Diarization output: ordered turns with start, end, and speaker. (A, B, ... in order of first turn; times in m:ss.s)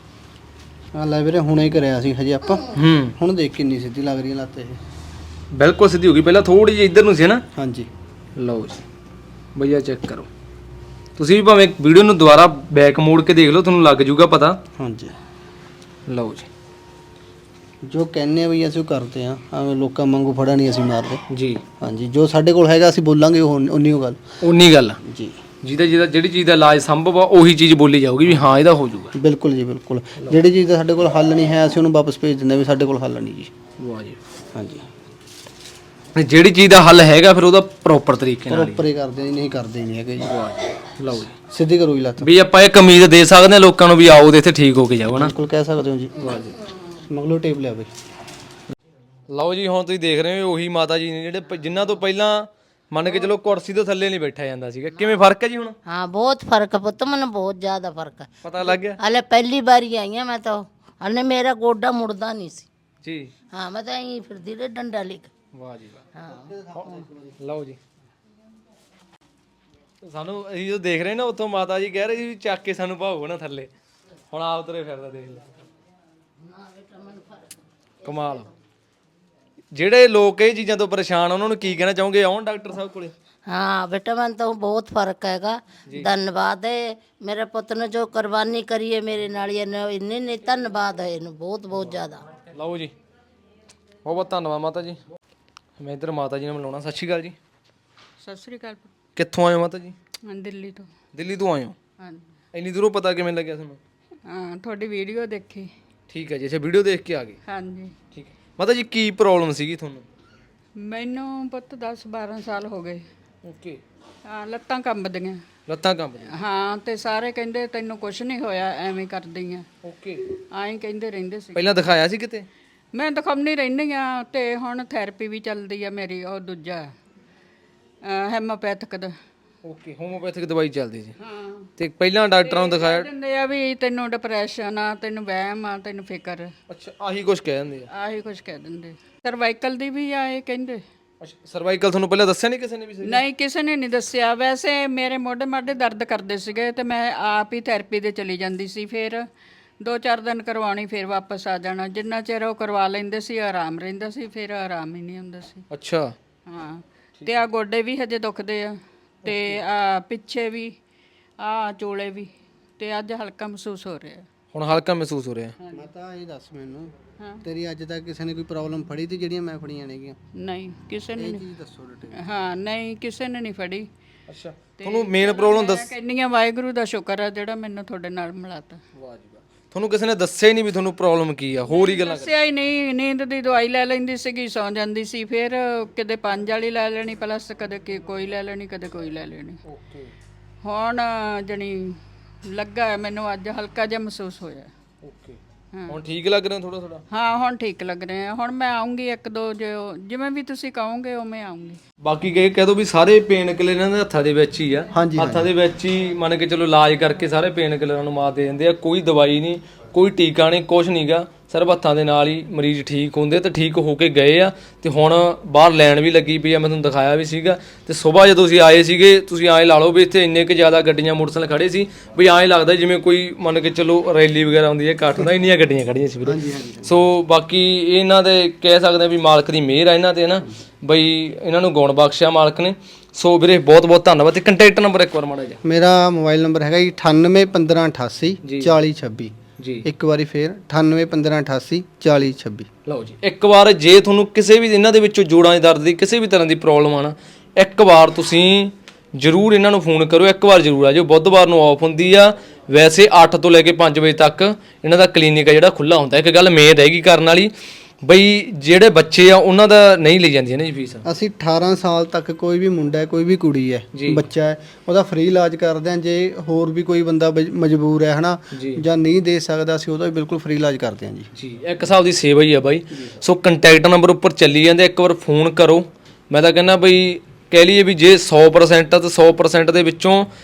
0:00.9-0:04.8 A
0:02.7-0:03.2 B
0:05.5-0:07.4 B
0:07.5-0:07.9 A
0:08.4-0:08.8 B
0:09.5-0:10.3 B
0:11.2-0:14.6 B
0:14.8-0:15.2 A
0:16.1-0:16.5 B
0:17.8-0:21.2 A
0:21.3-0:21.6 B
0:21.8-0:24.2 A
0:24.4-0:25.0 B
0:25.0-0:25.4 A
0:25.6-0:29.1 B
0:29.1-0:33.5 A
0:33.8-0:34.2 B
0:34.5-0:34.9 A
0:36.1-0:38.9 B
0:38.5-0:40.4 A
0:40.2-0:41.3 B
0:41.4-0:42.3 A
0:42.2-0:45.3 B
0:45.1-0:46.4 A
0:46.2-0:46.6 B
0:47.0-0:47.9 A
0:49.3-0:55.8 B
0:55.9-1:02.7 C
0:58.4-0:59.0 B
1:03.0-1:03.3 B
1:03.5-1:05.3 C
1:05.5-1:06.0 B
1:06.1-1:06.6 C
1:06.7-1:07.8 B
1:10.0-1:13.7 B
1:14.3-1:15.5 B
1:16.4-1:17.5 C
1:18.0-1:18.5 B
1:19.7-1:23.1 B
1:23.5-1:32.2 C
1:32.5-1:32.9 B
1:34.0-1:35.0 B
1:35.8-1:37.4 B
1:38.2-1:38.9 D
1:39.2-1:40.0 B
1:40.2-1:40.9 D
1:41.1-1:41.8 B
1:42.0-1:42.3 D
1:42.5-1:43.8 B
1:44.2-1:45.7 D
1:46.1-1:47.4 B
1:47.4-1:47.9 D
1:48.1-1:50.1 B
1:50.8-1:53.0 D
1:53.4-1:53.8 B
1:54.3-1:55.4 D
1:55.7-1:56.3 B
1:56.3-1:59.7 D
1:59.8-2:00.2 B
2:00.5-2:01.6 D
2:01.5-2:02.5 B
2:02.9-2:06.9 D
2:08.0-2:09.1 D
2:09.6-2:11.2 B
2:11.2-2:11.7 D
2:11.8-2:13.1 B
2:12.4-2:16.5 D
2:16.7-2:17.9 B
2:17.9-2:20.8 D
2:21.2-2:23.2 B
2:23.0-2:29.3 D
2:29.8-2:35.6 D
2:35.7-2:36.1 B
2:36.5-2:40.8 D
2:39.2-2:39.6 B
2:41.4-2:44.3 D
2:44.5-2:45.5 B
2:45.6-2:45.9 D
2:45.7-2:50.2 A
2:47.2-2:47.4 D
2:50.4-2:51.4 D
2:51.2-2:52.3 A
2:52.1-2:53.9 D
2:54.3-2:55.9 B
2:54.8-2:58.8 D
2:59.0-3:02.3 B
3:01.7-3:09.6 D
3:09.6-3:10.1 B
3:10.6-3:14.7 D
3:15.0-3:17.0 B
3:15.7-3:16.0 D
3:17.1-3:21.8 D
3:22.0-3:55.6 B
3:24.9-3:25.5 A
3:46.2-3:47.0 A
3:55.6-4:02.7 A
3:58.4-3:58.7 B
3:59.6-3:59.8 B
4:02.9-4:17.5 B
4:18.0-4:21.0 B
4:21.0-4:31.3 A
4:23.9-4:24.2 B
4:28.5-4:28.8 B
4:31.4-4:40.3 B
4:32.9-4:33.2 A